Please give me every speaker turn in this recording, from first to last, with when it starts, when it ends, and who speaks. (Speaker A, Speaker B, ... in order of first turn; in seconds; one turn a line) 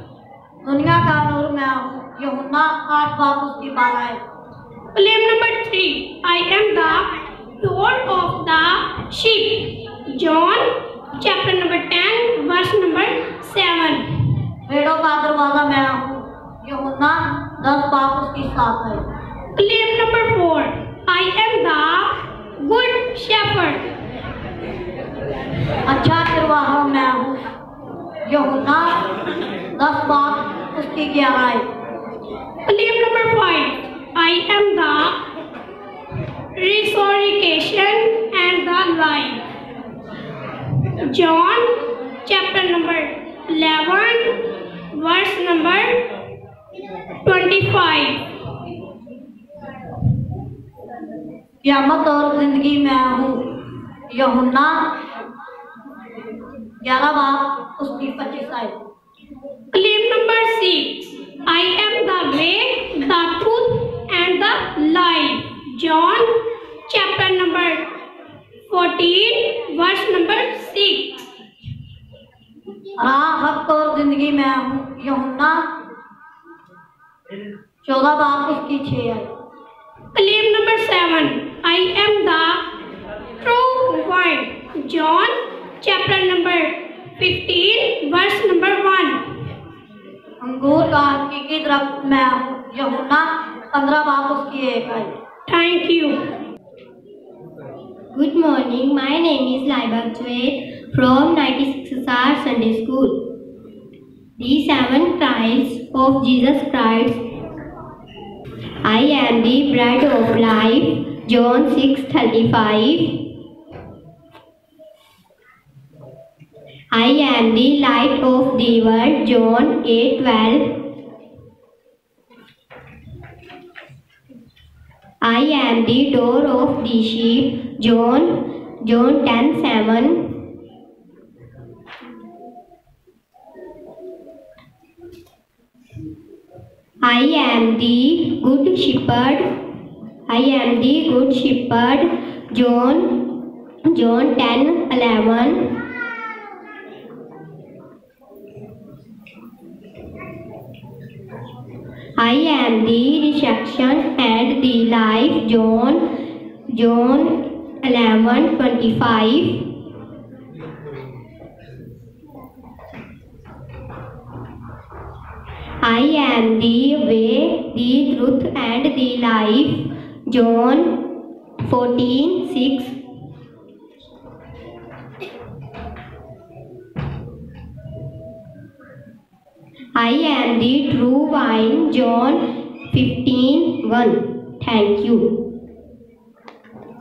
Speaker A: 0.6-4.2
Speaker B: 4.9-7.1
Speaker B: 7.6-14.0
Speaker A: 14.7-19.0
Speaker B: 19.6-23.8
Speaker A: 25.9-27.4
Speaker A: 28.3-29.0
Speaker A: 29.7-31.6
Speaker B: 32.7-35.1
Speaker B: 36.5-39.4
Speaker B: 40.8-44.4
Speaker B: 44.9-46.0
Speaker B: 47.2-48.2
Speaker A: 51.6-53.5
Speaker A: 54.1-54.9
Speaker A: 56.8-58.7
Speaker B: 59.7-66.3
Speaker B: 66.9-67.8
Speaker B: 68.6-71.1
Speaker A: 73.0-75.6
Speaker A: 77.8-79.3
Speaker B: 80.1-82.6
Speaker B: 83.4-89.2
Speaker A: 90.4-95.1
Speaker B: 95.5-96.1
Speaker C: 98.1-103.2
Speaker C: 104.4-107.2
Speaker C: 108.8-113.3
Speaker C: 116.9-120.8
Speaker C: 125.2-130.4
Speaker C: 137.0-139.6
Speaker C: 140.3-145.8
Speaker C: 152.2-156.1
Speaker C: 156.7-159.7
Speaker C: 165.8-171.1
Speaker C: 171.6-172.9
Speaker C: 179.9-185.4